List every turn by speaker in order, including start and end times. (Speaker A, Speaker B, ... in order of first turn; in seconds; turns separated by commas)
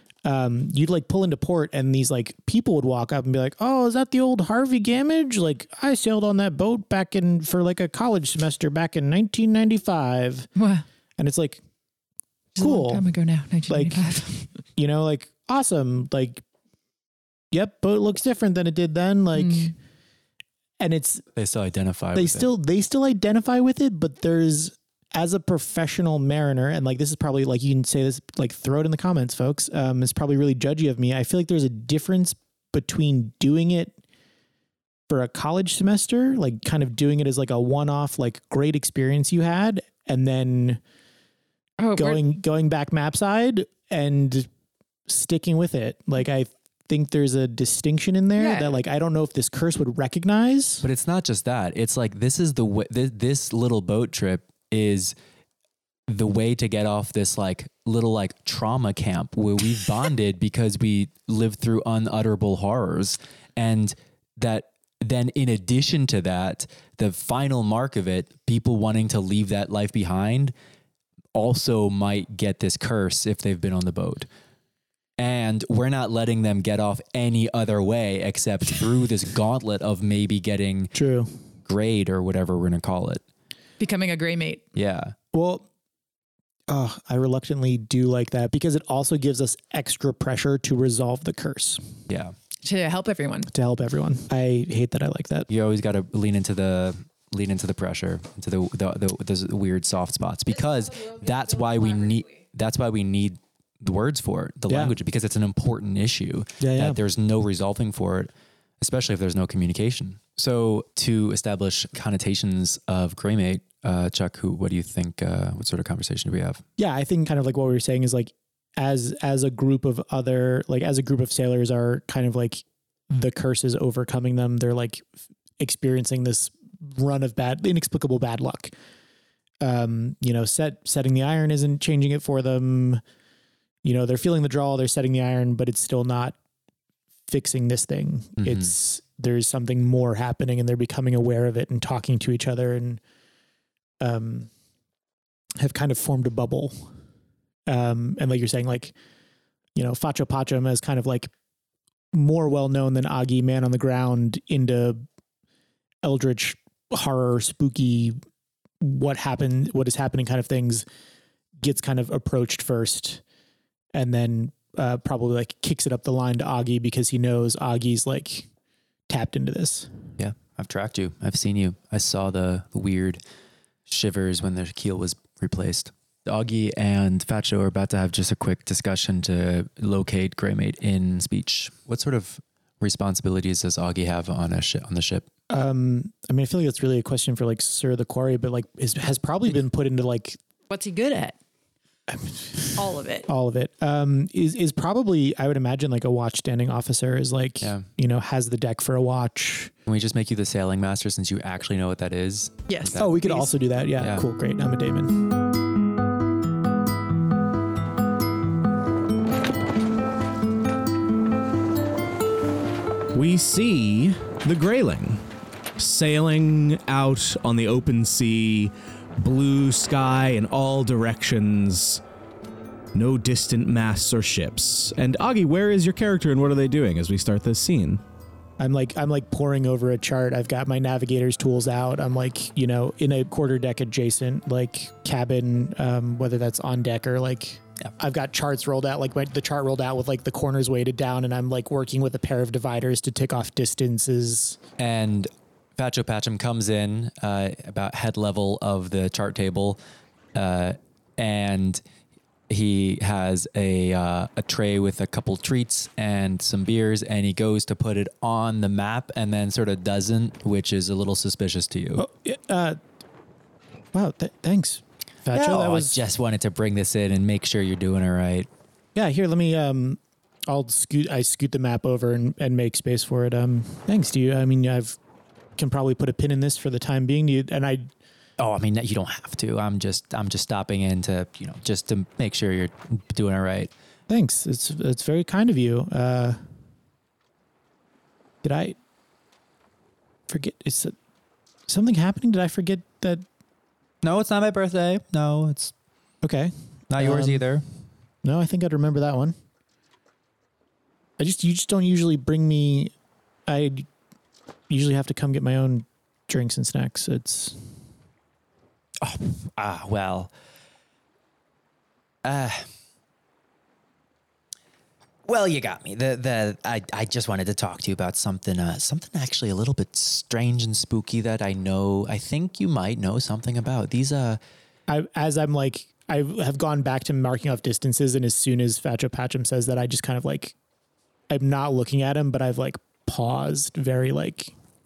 Speaker A: 0.2-10.5, Speaker B: 10.6-10.8, Speaker A: 11.2-11.6, Speaker A: 12.6-13.0, Speaker B: 12.6-14.5, Speaker A: 13.7-16.4, Speaker A: 17.5-19.7, Speaker B: 19.4-19.7, Speaker A: 20.8-21.2, Speaker C: 21.4-22.5, Speaker A: 22.1-34.0, Speaker A: 35.1-40.8, Speaker B: 41.8-42.2, Speaker A: 42.0-44.5, Speaker A: 45.1-50.9, Speaker B: 48.4-48.8, Speaker C: 50.8-55.1, Speaker C: 56.1-70.5, Speaker C: 71.3-74.3, Speaker C: 75.2-80.9, Speaker A: 80.9-81.3, Speaker C: 81.6-83.2, Speaker B: 83.8-84.6, Speaker C: 84.8-85.1, Speaker A: 85.3-85.7, Speaker A: 86.7-92.0, Speaker C: 92.1-92.3, Speaker B: 92.6-93.5, Speaker A: 93.5-95.5, Speaker C: 95.5-116.6, Speaker A: 104.7-105.0, Speaker A: 106.6-107.0, Speaker A: 116.8-125.0, Speaker A: 125.6-128.7, Speaker A: 129.6-133.0, Speaker A: 133.8-136.4, Speaker A: 137.3-143.0, Speaker C: 138.4-138.7, Speaker A: 144.0-144.5, Speaker A: 145.6-146.9, Speaker A: 147.7-148.9, Speaker A: 149.8-151.3, Speaker A: 152.1-155.0, Speaker A: 156.0-158.2, Speaker A: 158.8-160.8, Speaker A: 161.6-163.2, Speaker A: 163.9-168.5, Speaker A: 169.1-170.0, Speaker C: 170.2-173.2, Speaker C: 173.9-185.3, Speaker A: 185.5-190.4, Speaker B: 190.7-191.4, Speaker A: 192.1-192.8, Speaker B: 192.8-193.3, Speaker A: 193.3-199.7, Speaker C: 197.6-197.9, Speaker C: 199.9-203.2, Speaker B: 202.7-203.5, Speaker A: 203.0-205.2, Speaker C: 204.0-204.2, Speaker D: 213.1-215.2, Speaker D: 215.8-222.0, Speaker D: 222.9-228.0, Speaker A: 228.6-244.6, Speaker C: 244.8-249.8, Speaker C: 250.3-251.8, Speaker C: 252.5-262.0, Speaker A: 262.0-262.8, Speaker A: 263.9-266.0, Speaker C: 265.3-268.5, Speaker A: 268.9-275.0, Speaker A: 275.6-277.9, Speaker C: 278.4-283.7, Speaker A: 284.1-286.5, Speaker A: 288.4-288.8, Speaker A: 290.3-291.0, Speaker A: 291.7-293.2, Speaker C: 294.0-295.7, Speaker A: 296.2-297.4, Speaker C: 296.9-297.6, Speaker A: 298.2-299.4, Speaker A: 301.2-302.9, Speaker A: 303.5-303.9, Speaker A: 304.7-307.7, Speaker C: 309.0-310.3, Speaker C: 312.2-312.7, Speaker C: 315.2-324.4, Speaker A: 324.9-330.5, Speaker A: 331.3-334.5